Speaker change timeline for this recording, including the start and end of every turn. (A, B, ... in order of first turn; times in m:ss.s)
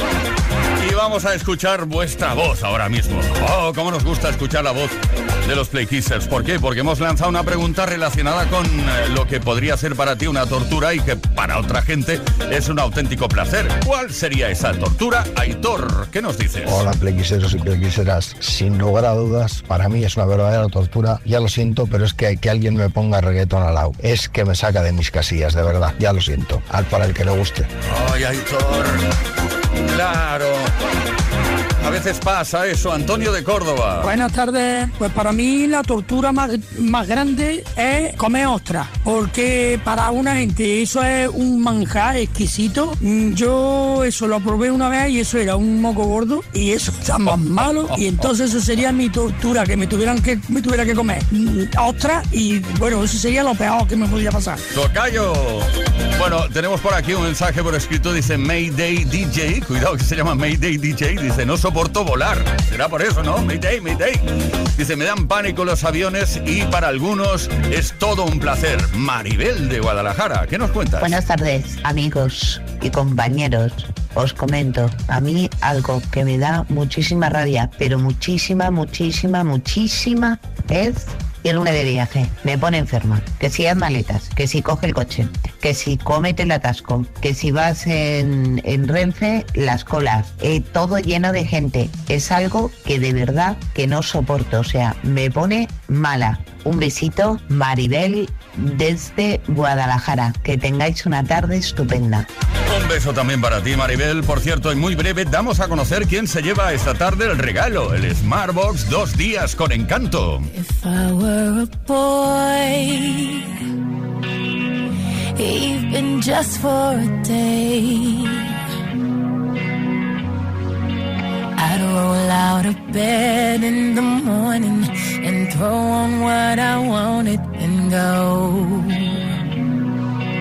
0:00.8-0:16.8 A
0:16.7-0:27.7 B
0:27.9-0:29.1 A
0:29.9-0:30.7 A
0:31.8-0:34.1 A
0:34.0-0:54.6 C
0:47.2-0:48.3 A
0:54.7-1:04.2 A
1:04.8-1:11.2 A
1:11.0-1:42.3 D
1:42.7-1:50.5 A
1:50.5-1:53.5 E
1:55.4-1:58.5 E
2:01.6-2:09.2 E